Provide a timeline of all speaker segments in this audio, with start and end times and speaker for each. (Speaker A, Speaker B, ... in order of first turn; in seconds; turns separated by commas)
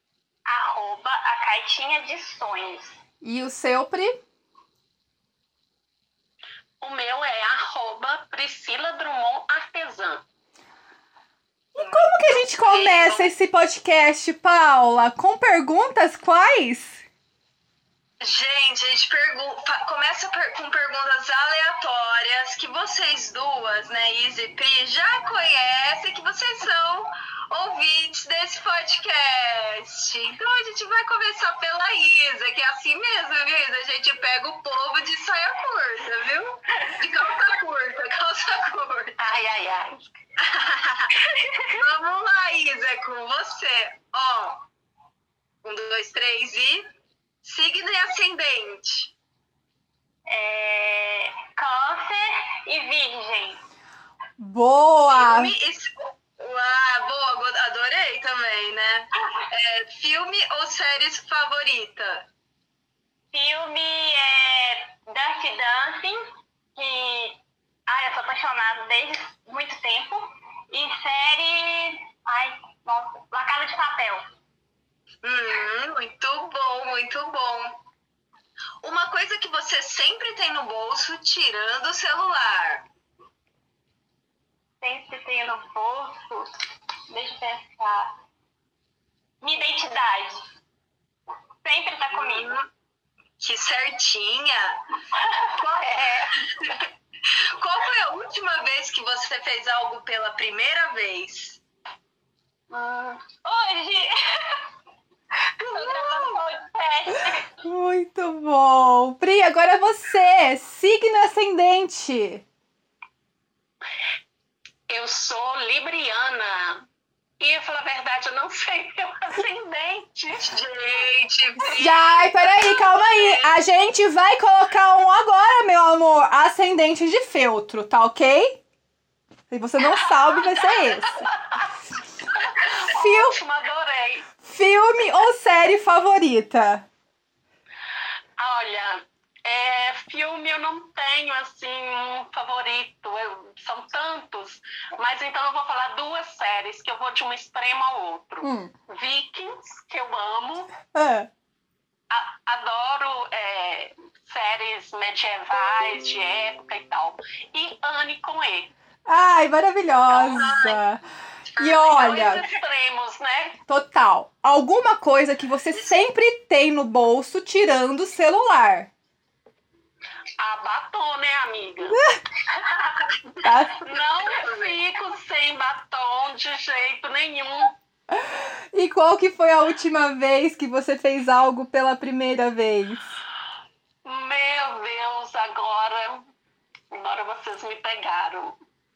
Speaker A: 0.5-3.0, Speaker B: 3.2-4.2, Speaker C: 6.8-10.2, Speaker B: 11.7-17.0, Speaker D: 11.8-13.3, Speaker D: 18.2-39.2, Speaker C: 39.2-40.0, Speaker D: 40.4-41.1, Speaker D: 41.7-44.6, Speaker D: 45.6-46.8, Speaker D: 47.4-49.1, Speaker A: 50.3-53.6, Speaker B: 54.4-55.5, Speaker D: 55.1-62.2, Speaker A: 63.3-74.2, Speaker D: 75.2-77.8, Speaker D: 78.8-82.8, Speaker A: 84.8-86.5, Speaker A: 87.1-88.1, Speaker A: 89.4-90.4, Speaker A: 91.6-92.5, Speaker D: 92.2-92.7, Speaker D: 93.4-94.8, Speaker D: 95.5-96.0, Speaker C: 95.8-96.3, Speaker D: 97.6-101.6, Speaker A: 102.7-104.6, Speaker A: 105.6-107.5, Speaker D: 105.6-106.4, Speaker B: 107.6-112.4, Speaker C: 114.9-116.9, Speaker C: 117.4-120.6, Speaker D: 120.3-122.0, Speaker C: 121.7-123.6, Speaker B: 121.7-128.6, Speaker B: 129.5-131.3, Speaker C: 129.9-131.7, Speaker C: 132.3-134.3, Speaker B: 132.9-133.4, Speaker B: 134.4-136.8, Speaker C: 138.4-150.7, Speaker B: 148.4-148.7, Speaker B: 150.9-151.3, Speaker C: 152.1-158.7, Speaker B: 159.1-161.0, Speaker D: 160.1-160.8, Speaker D: 161.5-162.4, Speaker B: 161.6-162.4, Speaker C: 161.7-163.6, Speaker B: 163.7-168.9, Speaker C: 170.4-172.0, Speaker B: 171.9-172.2, Speaker B: 173.4-173.8, Speaker C: 173.8-177.8, Speaker B: 178.1-183.2, Speaker C: 184.0-186.3, Speaker C: 186.9-188.6